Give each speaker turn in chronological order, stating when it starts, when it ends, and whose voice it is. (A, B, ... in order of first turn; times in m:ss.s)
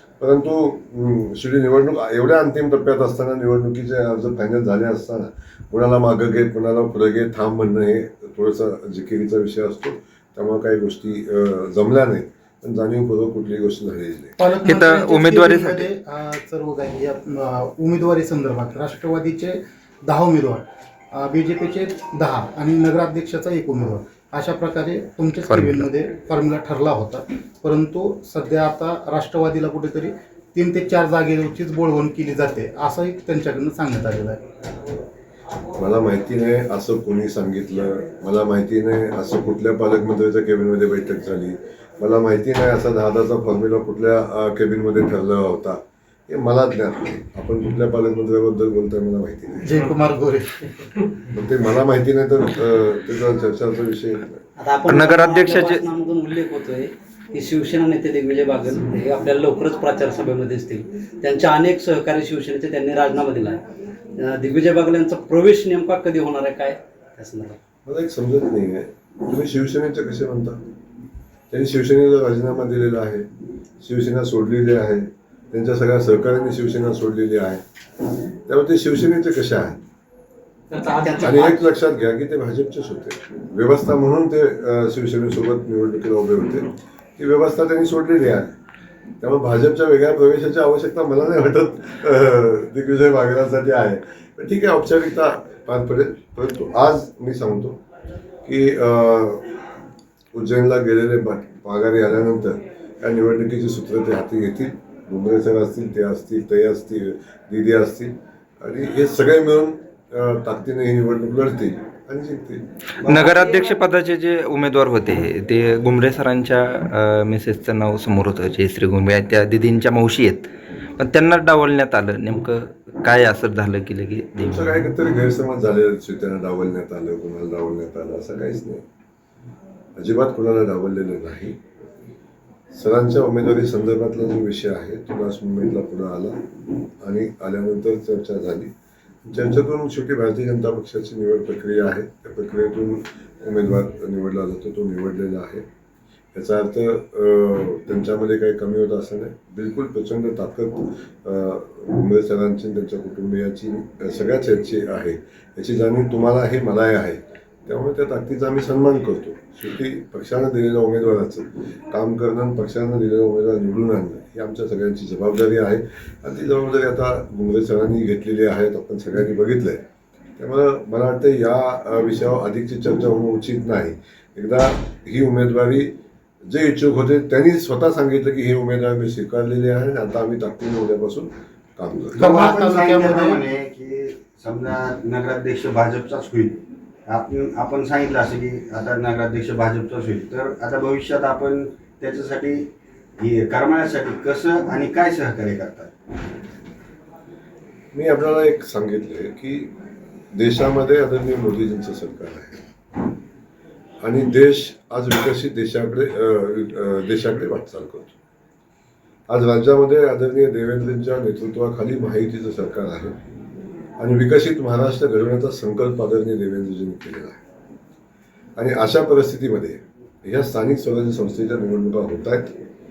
0:00.2-0:14.3 A
0:14.4-0:34.4 B
0:14.6-0:15.9 C
0:25.5-0:25.8 C
0:35.8-0:49.7 A
0:49.6-0:50.9 B
0:51.3-0:54.4 A
0:54.6-1:03.6 D
0:54.9-0:55.8 C
1:04.2-1:07.6 D
1:07.8-1:10.6 A
1:11.5-1:13.3 A
1:13.8-1:17.6 A
1:18.5-1:19.8 A
1:20.8-1:21.5 D
1:21.2-1:28.5 A
1:29.2-1:37.8 A
1:38.4-1:39.5 A
1:40.3-1:52.6 A
1:53.0-1:53.6 E
1:53.0-2:04.7 C
2:04.4-2:08.8 A
2:10.0-2:11.6 A
2:12.7-2:16.4 A
2:17.0-2:18.7 A
2:19.3-2:25.6 A
2:26.3-2:49.8 A
2:50.4-2:55.9 A
2:56.5-3:02.2 A
3:02.1-3:03.4 B
3:02.2-3:15.9 E
3:17.9-3:19.7 A
3:20.3-3:22.6 A
3:24.0-3:28.2 A
3:29.3-3:33.2 A
3:34.0-3:37.4 A
3:38.6-3:42.5 A